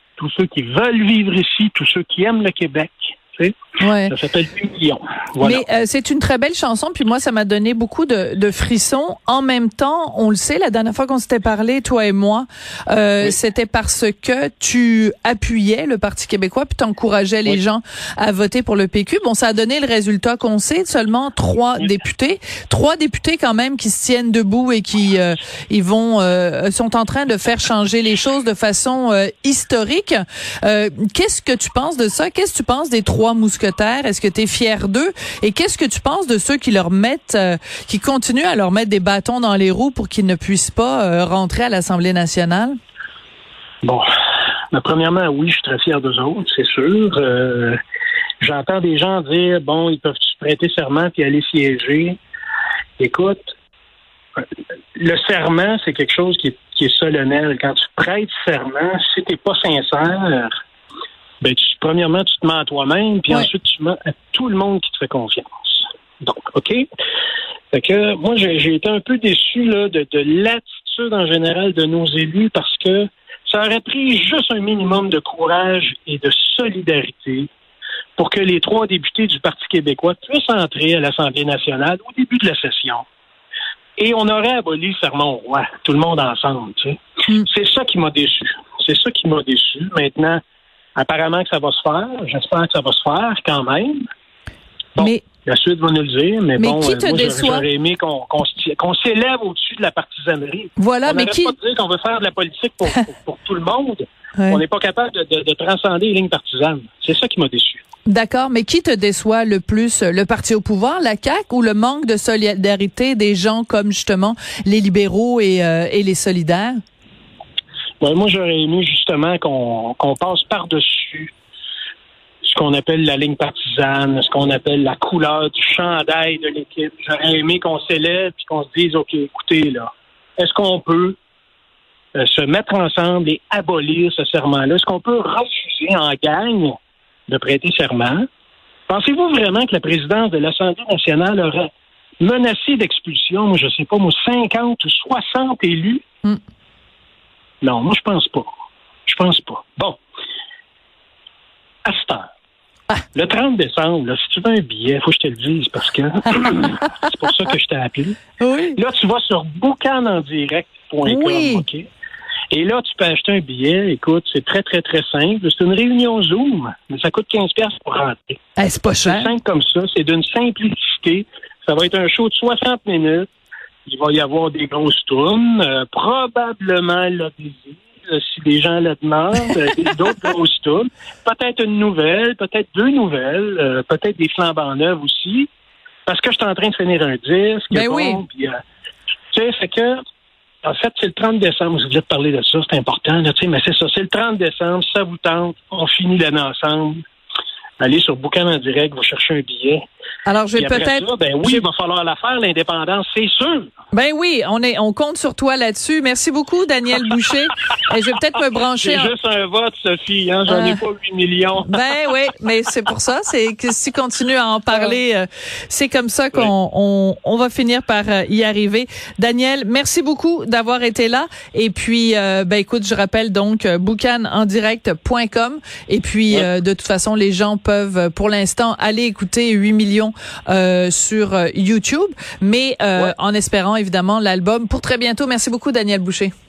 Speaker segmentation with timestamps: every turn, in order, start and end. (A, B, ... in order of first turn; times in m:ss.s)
0:00.2-0:03.5 A
0:03.8-0:04.1 B
0:04.0-0:05.6 A
0:05.4-0:42.8 B
0:44.7-0:47.8 A
0:48.4-0:52.2 A
0:53.0-0:53.5 A
0:55.0-1:00.5 A
1:01.4-1:06.8 A
1:07.7-1:17.5 A
1:18.2-1:23.0 A
1:24.0-1:30.4 A
1:31.0-1:34.0 A
1:35.0-1:47.8 A
1:35.0-1:35.2 B
1:36.6-1:37.6 B
1:40.8-1:41.5 B
1:44.4-1:44.6 B
1:48.0-1:56.8 B
1:58.0-2:01.3 A
2:02.4-2:11.2 A
2:12.2-2:16.7 A
2:17.3-2:18.2 A
2:18.9-2:21.7 A
2:22.2-2:26.0 A
2:27.6-2:28.5 A
2:29.1-2:30.0 A
2:31.8-2:32.3 A
2:33.1-2:38.2 A
2:38.4-2:38.8 B
2:38.7-2:41.9 A
2:41.0-2:41.6 B
2:42.5-2:48.4 A
2:48.6-2:49.3 B
2:49.0-2:53.3 A
2:53.8-3:05.5 A
3:06.0-3:08.6 A
3:07.7-3:08.2 B
3:09.3-3:10.0 A
3:10.6-3:17.0 A
3:17.8-3:19.8 A
3:20.2-3:21.6 B
3:20.6-3:23.7 A
3:23.9-3:29.1 B
3:28.8-3:31.8 A
3:30.5-3:30.8 B
3:31.6-3:56.3 B